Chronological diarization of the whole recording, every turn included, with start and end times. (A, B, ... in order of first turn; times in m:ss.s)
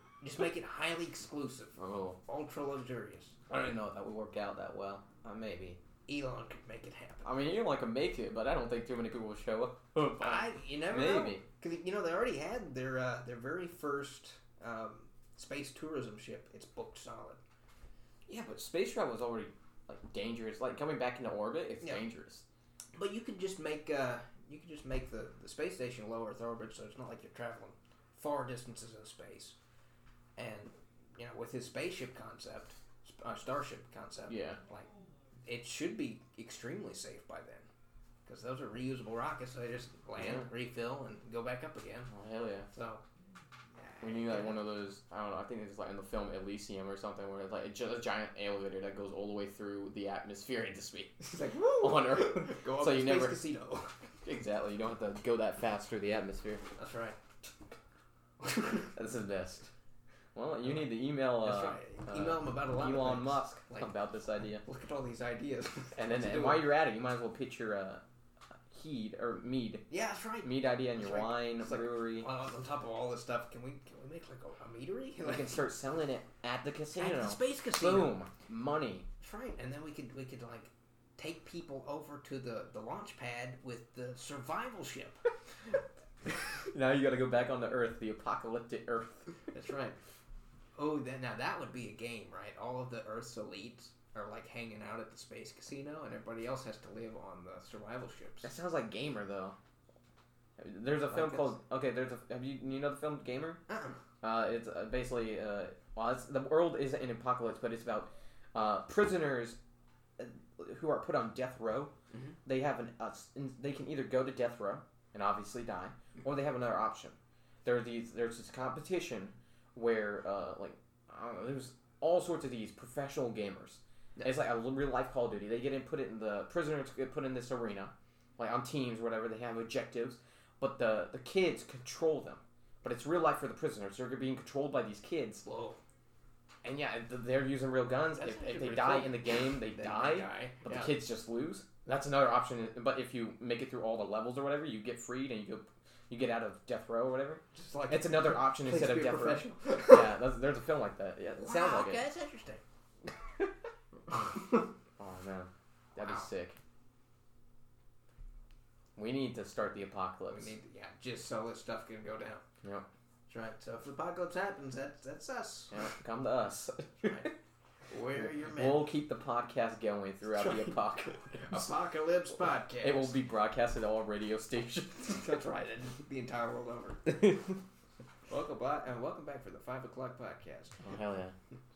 0:00.2-0:03.4 A
0:01.8-0:02.2 B
0:03.5-0:05.8 B
0:06.1-0:07.4 A
0:07.2-0:11.4 B
0:10.2-0:17.4 A
0:18.3-0:22.4 B
0:23.0-0:29.6 A
0:30.4-0:34.9 A
0:34.3-0:34.6 B
0:35.4-0:37.7 A
0:38.3-0:42.1 A
0:40.2-0:40.5 B
0:42.1-0:42.7 B
0:42.7-0:43.0 A
0:43.8-0:44.6 A
0:44.0-0:53.4 B
0:51.2-0:53.9 A
0:54.2-0:56.6 B
0:56.8-0:57.2 A
0:58.4-0:58.9 A
0:58.7-0:59.7 B
1:00.4-1:04.6 B
1:00.7-1:03.9 A
1:04.6-1:06.7 A
1:05.9-1:08.0 B
1:08.7-1:09.9 B
1:09.9-1:15.6 A
1:10.4-1:12.3 B
1:15.2-1:19.1 B
1:17.0-1:18.2 A
1:19.2-1:25.2 A
1:26.7-1:29.4 B
1:29.5-1:30.0 A
1:30.8-1:38.5 A
1:38.4-1:39.6 B
1:40.6-1:43.6 B
1:41.1-1:41.6 A
1:43.7-1:44.0 A
1:44.2-1:49.6 B
1:50.2-1:51.9 B
1:52.4-2:15.4 B
2:15.4-2:15.8 A
2:16.6-2:32.1 B
2:18.2-2:21.0 A
2:27.5-2:30.2 A
2:31.4-2:32.6 A
2:35.0-2:36.6 B
2:39.0-2:40.6 B
2:40.3-2:42.4 A
2:43.3-2:45.8 A
2:45.7-2:47.4 B
2:47.0-2:47.3 A
2:47.9-2:48.9 A
2:48.2-2:51.7 B
2:50.3-2:53.2 A
2:52.8-2:55.4 B
2:55.2-2:57.2 A
2:57.1-2:57.6 B
2:58.3-3:00.8 A
3:00.8-3:01.4 B